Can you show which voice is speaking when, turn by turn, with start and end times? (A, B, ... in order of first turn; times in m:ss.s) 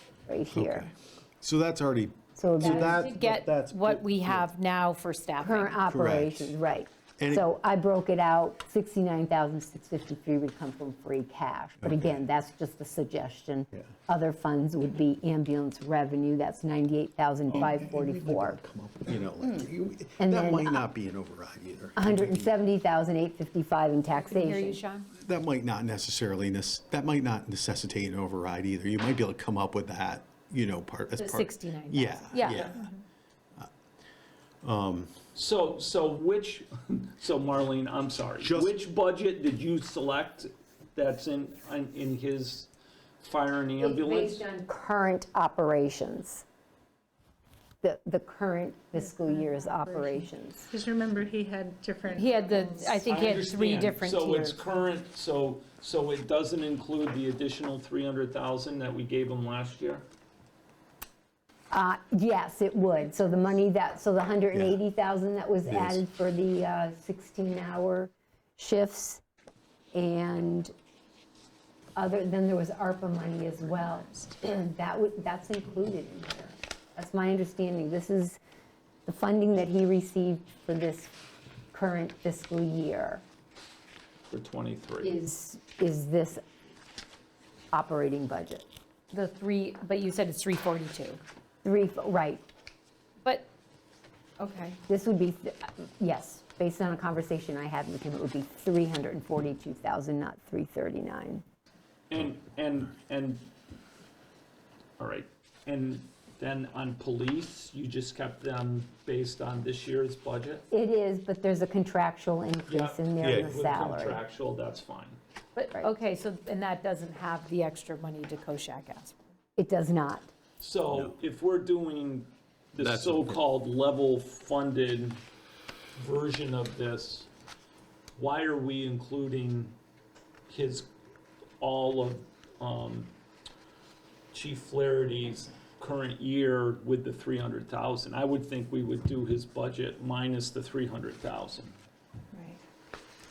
0:00.3-0:00.9 A
0:00.5-0:04.5 B
0:02.3-0:03.0 A
0:02.6-0:05.8 C
0:05.4-0:18.6 A
0:05.9-0:06.6 B
0:07.2-0:07.4 B
0:11.8-0:12.2 B
0:17.5-0:22.5 B
0:20.2-0:20.9 A
0:22.0-0:24.8 A
0:24.1-0:25.1 C
0:25.1-0:32.9 B
0:31.2-0:32.9 C
0:34.6-0:35.1 B
0:35.3-0:42.7 D
0:38.4-0:38.8 B
0:43.2-0:44.4 D
0:43.8-0:46.4 A
0:47.8-0:50.7 A
0:49.2-0:53.1 E
0:52.1-0:54.6 C
0:53.0-1:00.0 D
1:01.7-1:09.2 A
1:05.7-1:06.0 B
1:09.9-1:10.7 A
1:12.0-1:18.4 A
1:19.0-1:21.1 A
1:21.7-1:23.2 A
1:24.3-1:25.2 D
1:25.0-1:26.4 A
1:27.7-1:28.6 A
1:29.1-1:31.2 C
1:31.6-1:32.4 A
1:34.4-1:34.8 C
1:34.9-1:41.4 A
1:42.1-1:43.5 D
1:45.0-1:50.6 D
1:50.7-1:54.2 A
1:52.7-1:55.2 D
1:53.2-1:53.6 B
1:55.6-1:59.2 C
1:59.6-2:00.3 A
2:00.6-2:05.2 D
2:02.8-2:03.4 B
2:06.0-2:07.3 D
2:08.2-2:09.8 D
2:10.5-2:10.9 D
2:11.6-2:13.1 D
2:14.3-2:21.7 D